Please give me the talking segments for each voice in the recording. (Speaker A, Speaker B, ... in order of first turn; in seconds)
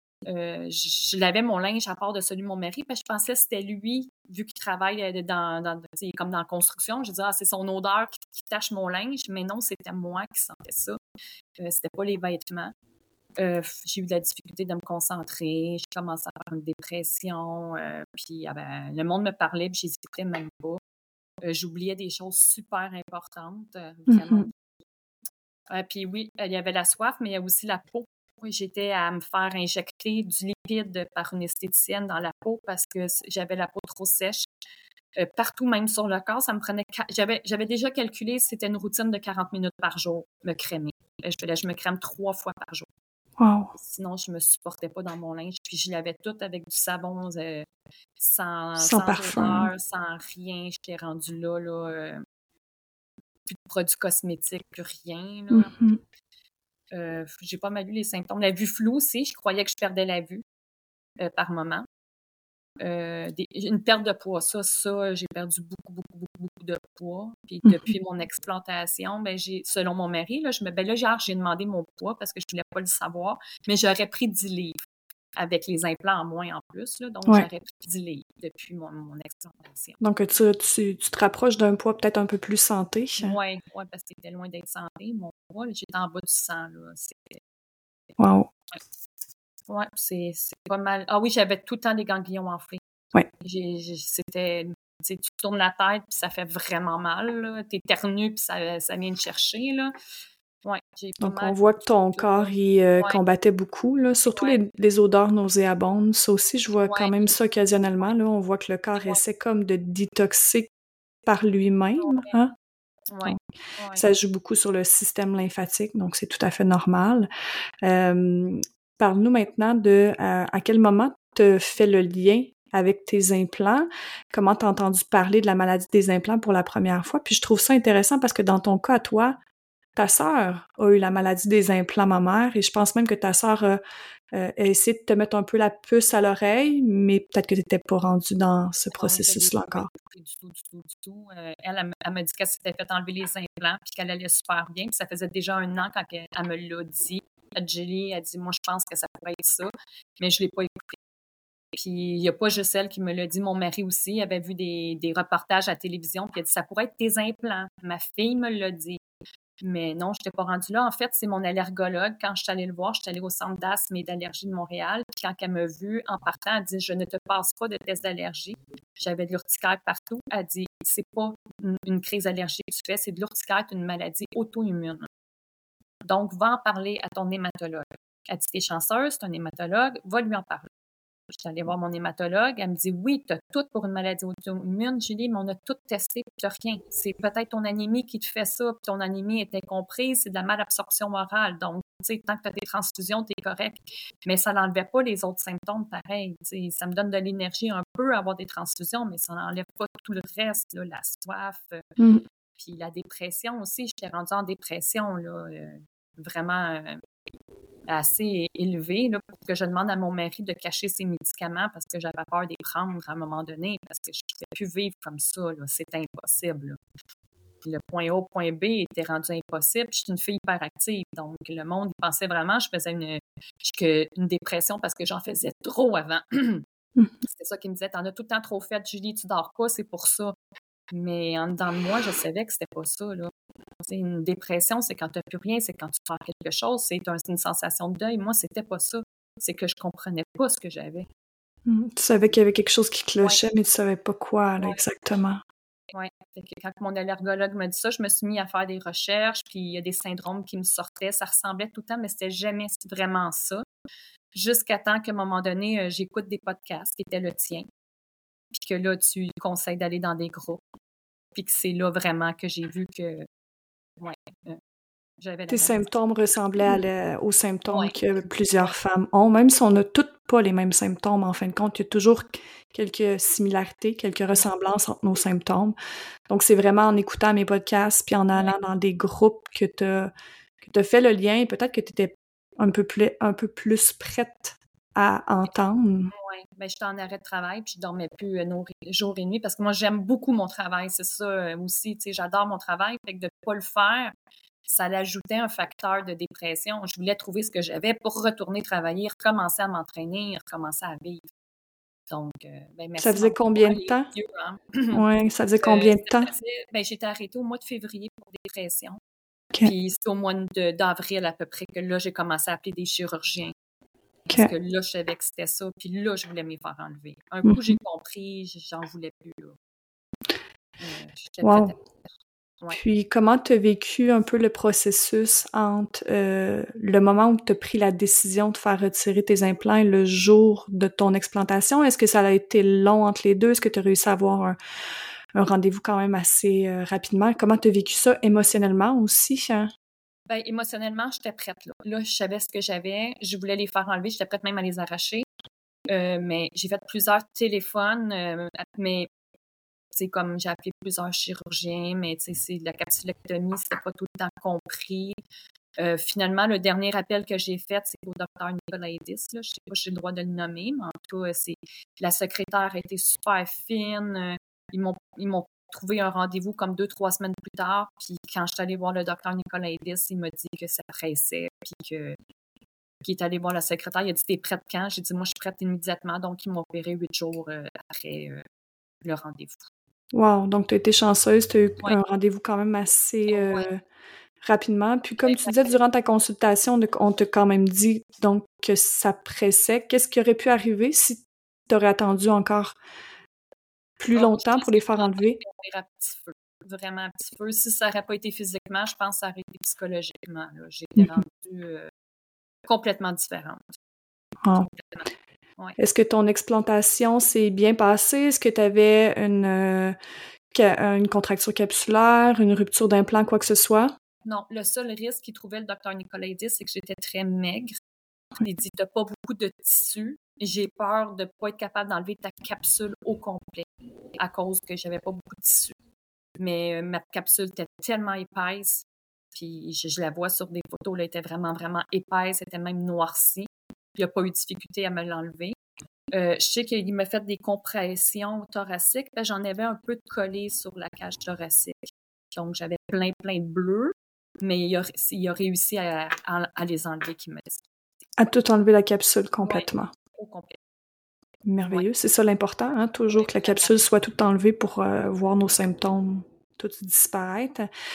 Speaker A: 0.3-11.0, 11.6-12.7, 13.4-20.8, 21.4-24.5, 25.7-34.5, 35.2-42.9, 43.8-52.2, 53.5-55.7, 56.9-60.4, 61.2-61.9, 62.8-74.8, 75.4-80.0, 83.2-87.4, 89.7-92.8, 93.4-99.9, 100.6-103.2, 104.3-104.6, 106.8-107.3, 112.0-112.4, 113.1-114.1, 138.9-151.0, 151.7-159.0, 159.6-175.1, 176.1-180.7, 181.3-201.9, 202.6-207.0, 207.9-216.8, 217.6-226.7, 227.2-230.4, 230.9-233.3, 233.8-241.1, 245.9-253.7, 254.3-257.7, 258.5-260.6, 261.4-263.3, 264.0-264.6, 265.2-266.0, 267.7-268.8, 286.1-294.1, 294.7-301.3, 302.1-305.0, 305.6-309.0, 309.6-313.5, 314.3-319.6, 320.8-322.0, 340.3-345.3, 345.9-349.1, 349.9-355.2, 355.8-372.2, 373.0-378.4, 379.0-379.7, 383.3-383.7, 385.2-385.8, 394.1-401.9, 402.7-403.7, 404.5-405.8, 414.2-417.7, 418.4-425.8, 426.4-435.6, 436.1-441.8, 442.3-447.6, 449.4-450.6, 453.1-453.7
Speaker B: 24.1-24.5, 43.4-43.7, 48.8-49.7, 55.5-56.0, 67.6-67.9, 80.0-83.4, 88.2-88.5, 101.2-110.7, 111.3-112.5, 114.0-117.3, 117.8-129.4, 130.0-133.8, 134.3-139.9, 241.7-245.4, 265.5-275.8, 276.3-280.1, 280.6-286.1, 303.0-304.1, 304.9-306.3, 317.4-317.8, 321.4-321.7, 322.7-334.6, 335.4-339.7, 380.1-383.8, 384.4-392.8, 394.0-395.4, 405.8-410.0, 410.5-413.9, 448.2-449.9, 451.5-457.7